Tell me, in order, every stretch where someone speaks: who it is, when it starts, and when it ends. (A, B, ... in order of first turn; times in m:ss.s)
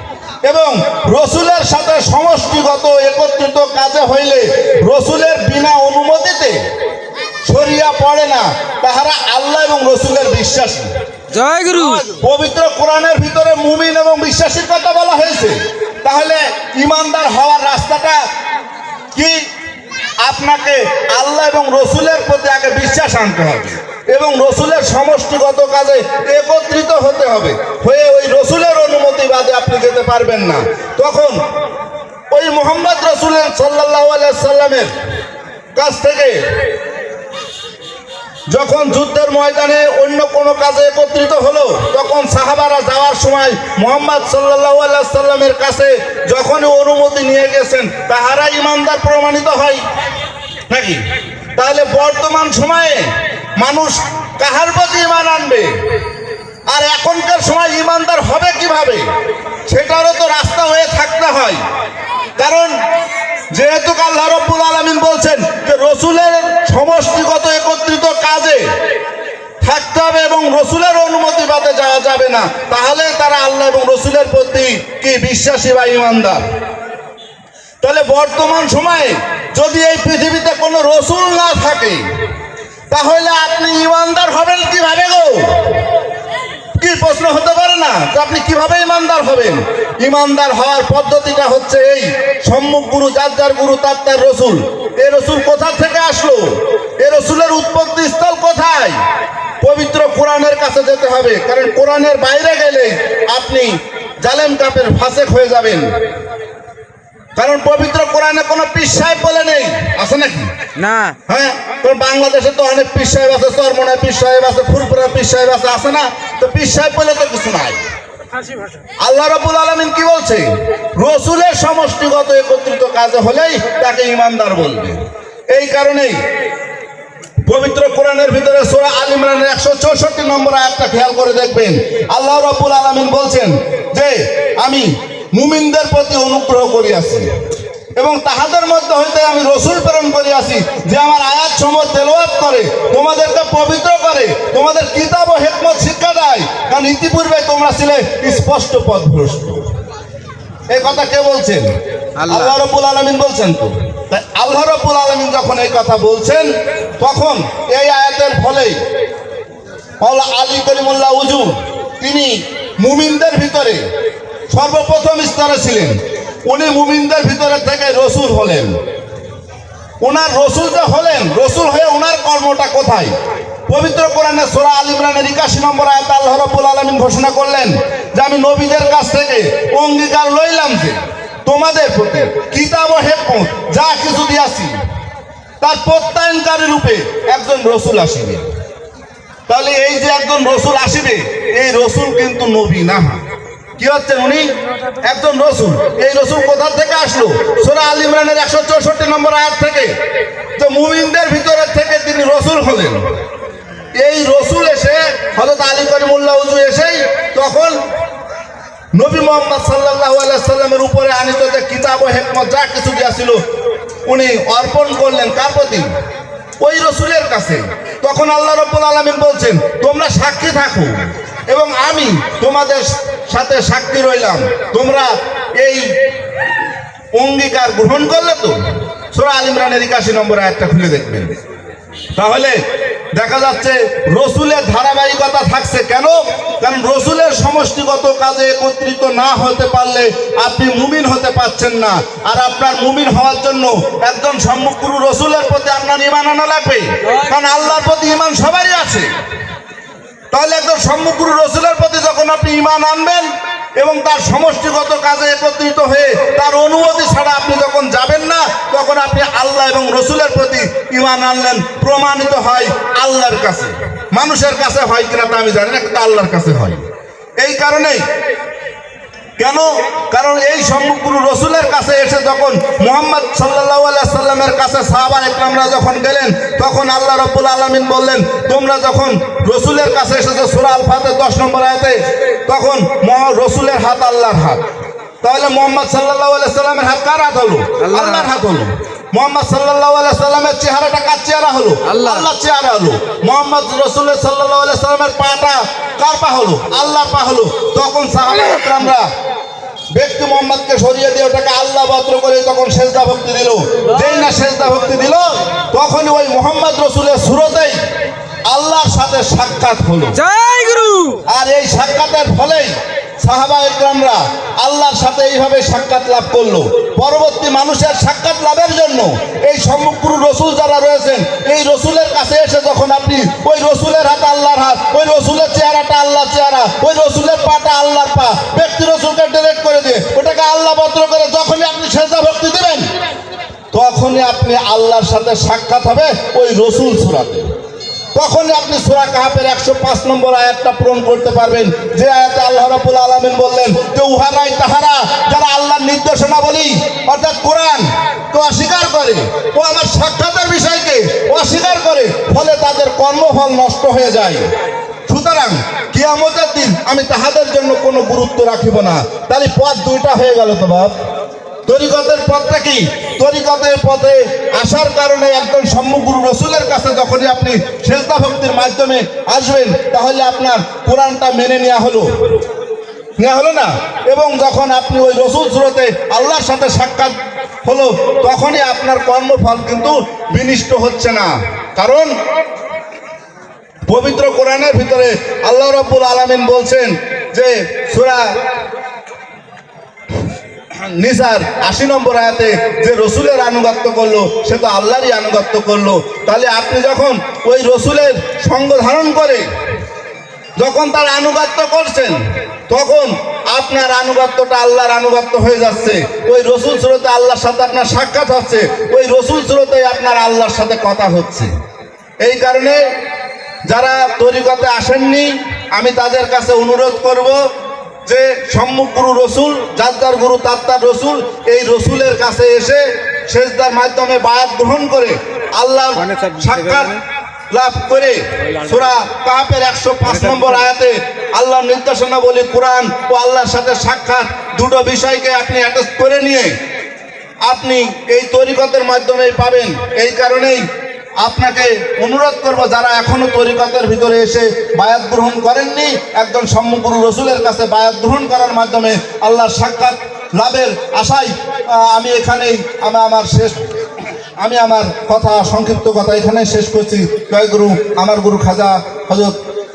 0:00.4-0:06.6 A
0:07.5-0:10.9 A
0:11.3-0:12.2 B
0:12.2-0:18.2 A
0:19.2-0:19.5 A
0:20.2-0:31.4 A
0:32.3-0:34.9 A
0:35.8-0:36.4 A
0:38.5-0:49.8 A
0:50.7-0:51.0 A
0:51.6-0:55.9 A
0:56.7-0:59.1 A
0:59.7-1:01.6 A
1:02.4-1:02.8 A
1:03.5-1:08.7 A
1:09.6-1:16.5 A
1:17.8-1:22.1 A
1:22.9-1:25.8 A
1:26.8-1:39.0 A
1:39.6-1:46.0 A
1:47.4-1:50.6 A
1:50.8-1:51.2 B
1:51.3-1:57.9 A
1:58.4-1:58.8 B
1:59.0-2:06.2 A
2:07.5-2:17.3 A
2:18.0-2:29.7 A
2:30.7-2:31.7 A
2:32.2-2:32.6 B
2:32.3-2:38.8 A
2:40.0-2:43.8 A
2:44.5-2:48.8 A
2:50.0-3:04.8 A
3:05.6-3:08.5 A
3:09.5-3:13.2 A
3:13.8-3:20.0 A
3:20.6-3:23.2 A
3:24.0-3:27.8 A
3:28.9-3:33.4 A
3:34.1-3:35.9 A
3:36.6-3:46.0 A
3:47.2-3:51.4 A
3:52.2-3:52.6 A
3:53.1-4:09.1 A
4:10.3-4:26.8 A
4:27.4-4:28.0 A
4:29.4-4:44.6 A
4:45.2-4:59.1 A
4:47.8-4:48.3 B
4:51.8-4:52.3 B
4:59.9-5:07.8 A
5:08.5-5:10.2 A
5:10.2-5:11.2 B
5:11.3-5:32.9 A
5:33.7-5:37.5 A
5:38.2-5:54.5 A
5:55.1-6:01.0 A
6:01.7-6:12.1 A
6:13.2-6:22.1 A
6:23.9-6:28.4 A
6:30.7-6:39.5 A
6:40.6-6:51.5 A
6:52.2-6:52.9 A
6:53.7-6:57.5 A
6:58.1-7:07.0 A
7:06.1-7:06.9 B
7:07.5-7:16.6 A
7:10.2-7:10.5 B
7:17.4-7:20.7 A
7:21.2-7:33.6 A
7:34.4-7:39.4 A